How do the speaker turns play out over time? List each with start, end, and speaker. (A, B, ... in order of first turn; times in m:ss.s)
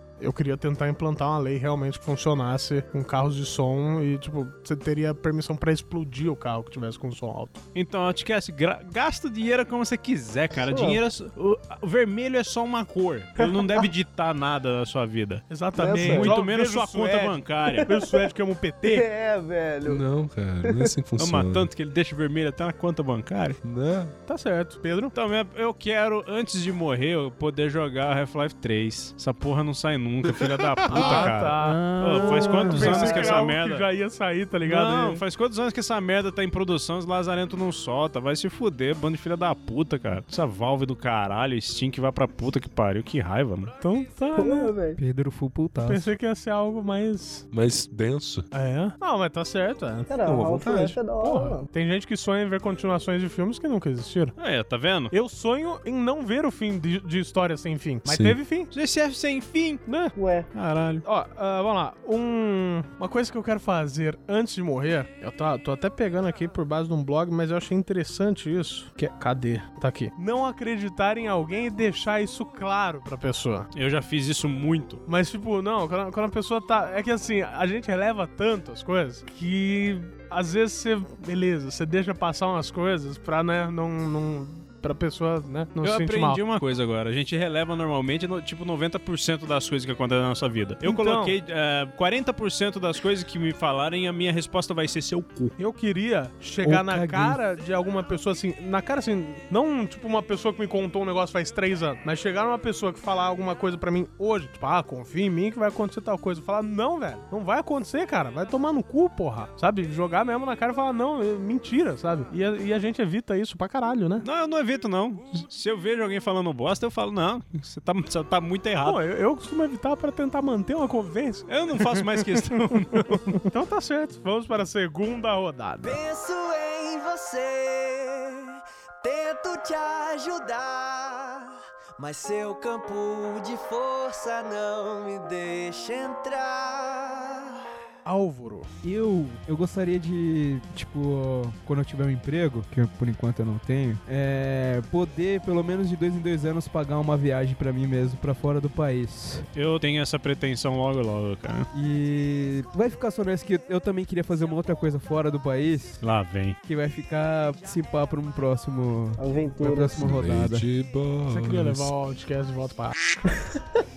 0:00.2-0:07.6 A
0:07.7-0:17.9 B
0:10.5-0:11.0 C
0:13.4-0:13.9 C
0:15.5-0:19.0 A
0:15.7-0:16.3 C
0:17.7-0:18.2 C
0:18.8-0:20.0 C
0:19.8-0:21.7 D
0:20.6-0:20.9 C
0:21.2-0:23.6 B
0:23.6-0:24.1 D
0:24.3-0:25.1 A
0:25.1-0:33.9 B
0:30.3-0:31.1 D
0:30.9-0:35.2 A
0:31.1-0:33.3 E
0:33.0-0:33.3 C
0:34.6-0:43.7 B
0:43.8-0:44.7 A
0:44.4-0:45.0 C
0:45.0-0:46.1 E
0:45.8-0:47.4 A
0:47.5-0:48.4 D
0:48.5-0:50.1 A
0:50.1-0:51.7 C
0:50.2-0:51.0 D
0:51.2-0:54.4 A
0:54.4-0:55.1 B
0:55.1-0:58.7 A
0:58.0-0:58.4 D
0:58.7-0:59.8 B
0:59.8-1:00.1 A
1:00.1-1:00.5 C
1:00.5-1:01.0 B
1:01.0-1:13.7 A
1:13.7-1:15.0 B
1:15.0-1:26.4 A
1:25.8-1:35.5 B
1:30.8-1:31.4 A
1:35.6-1:54.2 A
1:36.6-1:37.4 E
1:54.2-1:59.0 B
1:58.8-2:06.0 A
2:01.5-2:03.4 B
2:05.8-2:11.4 F
2:12.0-2:17.4 F
2:18.0-2:18.7 A
2:18.8-2:29.5 E
2:29.5-2:31.7 B
2:31.7-2:36.0 E
2:36.0-2:36.6 B
2:36.6-2:40.6 E
2:39.2-2:40.1 C
2:40.0-2:41.9 D
2:41.3-2:43.0 A